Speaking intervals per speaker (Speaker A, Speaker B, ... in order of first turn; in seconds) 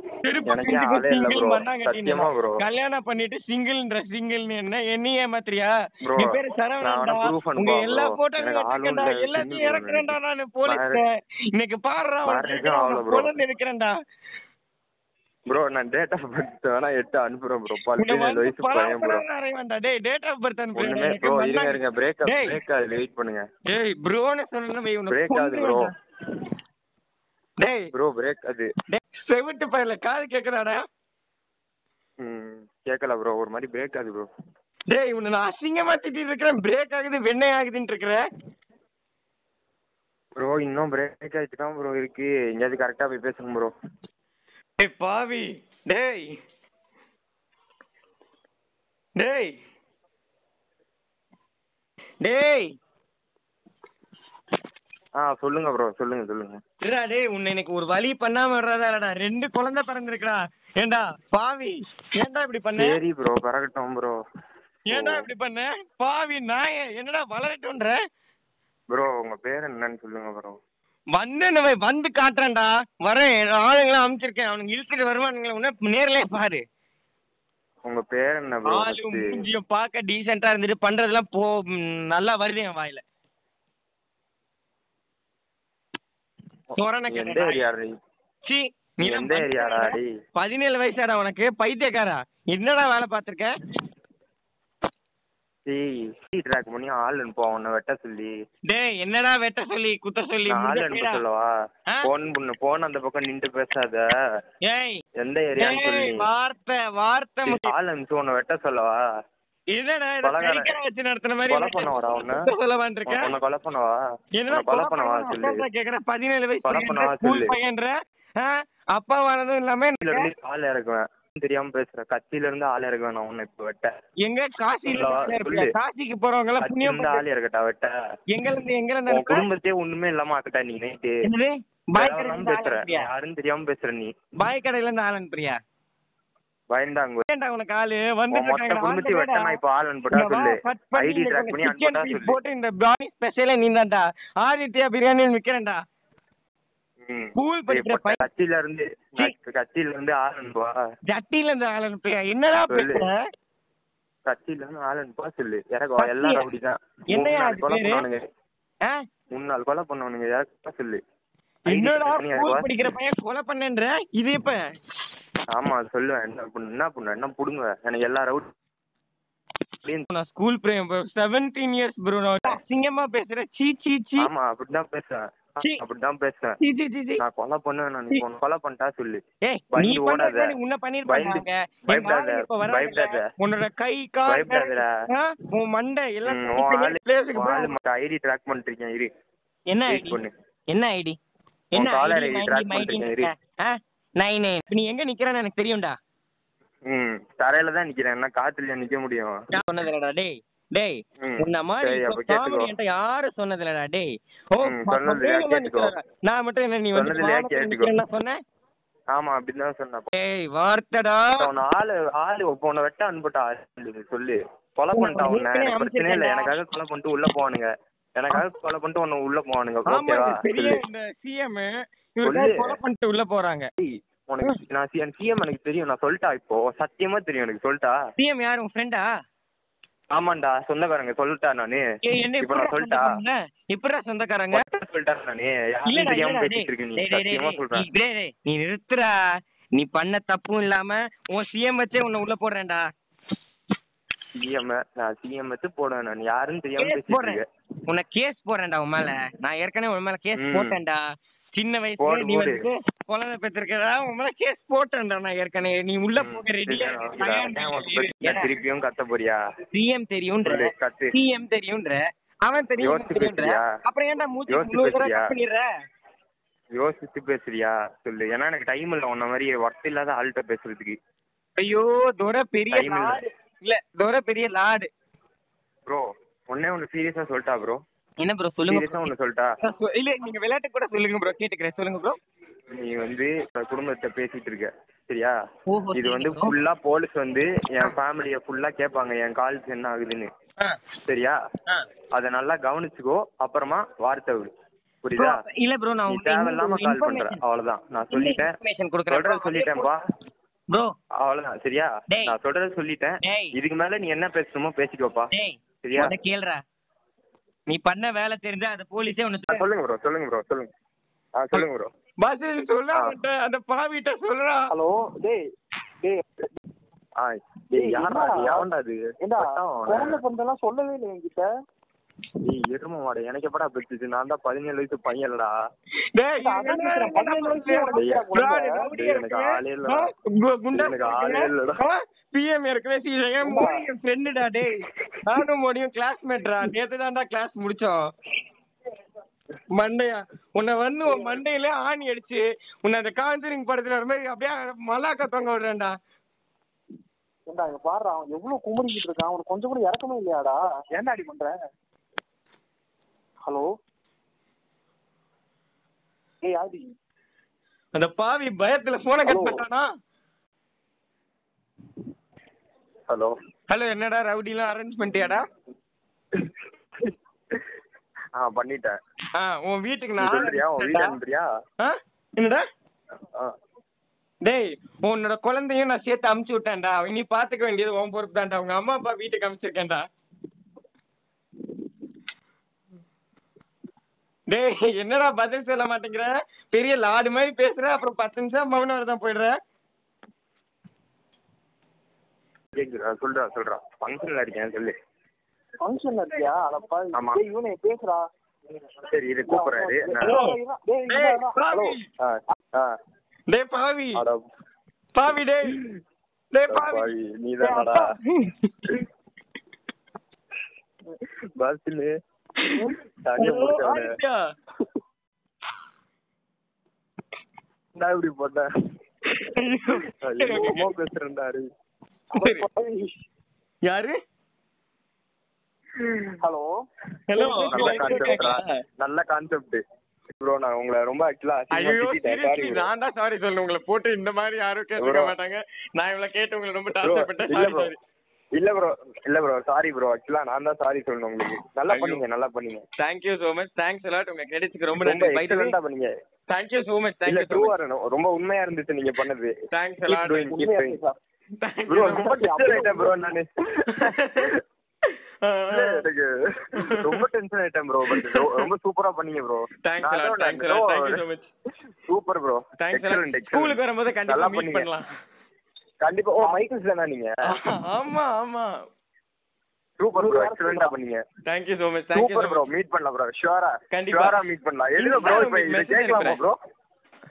Speaker A: 0.2-13.9, 18.0-22.6, 23.7-25.9, 27.6-27.9, 28.9-30.8, 34.9-38.2, 44.8-46.4, 49.2-49.5, 52.2-52.7, 56.8-63.0, 64.9-68.0, 71.1-76.6, 78.7-83.0, 86.8-87.7, 88.4-93.5, 98.7-101.2, 104.7-105.0, 105.6-107.7, 109.7-113.3, 114.4-120.3, 124.2-127.2, 128.3-129.4, 131.2-133.1, 134.4-135.6, 137.3-139.6, 140.1-145.8, 147.3-148.2, 151.1-153.1, 156.0-156.4, 157.1-158.0, 161.7-164.6, 170.1-174.3, 176.6-177.2, 179.4-187.7, 189.7-191.2, 191.7-195.9, 199.5-208.4, 210.2-211.4, 214.9-216.6, 219.9-223.7, 228.2-229.1, 232.0-234.6, 235.8-239.1, 239.8-242.8, 246.8-251.0, 251.5-258.5, 259.7-265.6, 271.6-274.9, 278.2-279.1, 279.6-282.2, 285.7-286.5, 295.1-297.4, 298.1-299.9, 302.1-302.4, 303.2-303.5, 305.3-306.6, 307.7-309.6, 312.2-314.6, 326.1-338.1, 339.7-345.9, 357.9-359.9, 363.7-365.4, 369.4-371.2, 371.8-372.6, 374.4-380.0, 384.5-389.5, 400.2-400.6, 401.1-402.0, 403.5-404.2, 405.1-405.8, 406.5-407.1, 407.6-408.7, 412.6-414.4, 419.3-420.9, 422.3-422.6, 423.9-424.1, 427.3-428.7, 431.7-438.0, 441.9-442.2, 443.0-445.7, 446.5-447.7, 449.7-450.6, 451.6-452.3, 453.9-454.5, 455.4-456.0, 456.9-457.2, 458.1-458.7, 459.8-461.5, 462.8-465.1, 467.5-468.7, 471.4-472.6, 473.9-474.4, 475.0-476.4
Speaker B: 0.5-2.6, 6.0-10.1, 10.6-11.0, 12.2-13.3, 15.5-19.2, 20.7-23.4, 25.1-25.9, 27.9-28.7, 32.2-34.3, 40.4-43.7, 55.2-56.6, 62.8-64.1, 64.9-65.3, 68.9-70.6, 77.8-79.4, 86.7-87.9, 89.0-90.1, 95.7-98.3, 100.5-101.5, 102.0-104.0, 105.2-106.3, 107.4-109.0, 110.2-110.7, 111.5-112.5, 113.1-115.6, 116.6-117.5, 120.0-123.9, 124.8-125.7, 126.6-127.9, 129.1-131.2, 131.9-134.1, 136.7-137.2, 138.3-142.4, 147.0-150.7, 152.7-153.1, 154.2-158.2, 159.3-161.0, 161.7-162.7, 165.5-168.5, 174.2-176.6, 177.2-179.2, 179.7-183.2, 184.2-184.9, 186.2-189.1, 189.9-190.3, 191.7-193.3, 196.9-199.3, 201.2-202.7, 204.6-205.9, 206.9-208.0, 209.1-210.1, 211.3-220.8, 222.2-222.8, 223.8-228.0, 230.1-231.9, 232.4-233.1, 234.5-237.9, 244.4-247.4, 250.4-250.8, 252.0-252.7, 256.2-259.4, 260.4-261.1, 262.8-263.6, 264.5-265.3, 266.7-271.0, 272.7-273.2, 275.9-277.8, 278.7-279.5, 282.8-285.3, 285.9-290.3, 291.1-291.4, 292.1-294.5, 295.0-295.4, 296.1-298.5, 299.1-300.0, 301.2-305.3, 305.8-306.1, 309.4-310.7, 311.4-311.9, 317.2-320.2, 322.4-325.5, 327.9-328.3, 328.9-330.1, 330.7-331.8, 363.1-363.3, 368.4-369.0, 370.2-371.5, 392.7-394.9, 397.1-397.4, 399.1-400.4, 402.2-402.9, 404.1-404.4, 406.7-408.1, 411.6-412.1, 413.2-414.1, 417.9-418.7, 420.2-421.7, 427.6-429.8, 430.4-432.9, 435.0-435.4, 436.9-437.9, 438.6-442.8, 445.0-446.1, 447.2-449.5, 450.1-451.0, 451.9-454.5, 455.7-461.2, 461.9-464.9, 466.0-467.3, 470.0-471.2, 472.1-476.6
Speaker C: 314.7-315.4, 317.8-318.7, 319.2-321.5, 326.4-328.9, 333.4-333.8, 347.5-351.5, 356.4-356.8, 359.2-359.6, 395.8-398.2, 399.5-401.9, 422.4-423.1, 426.4-426.7, 427.3-428.3, 450.5-451.1, 452.3-453.2, 470.1-470.9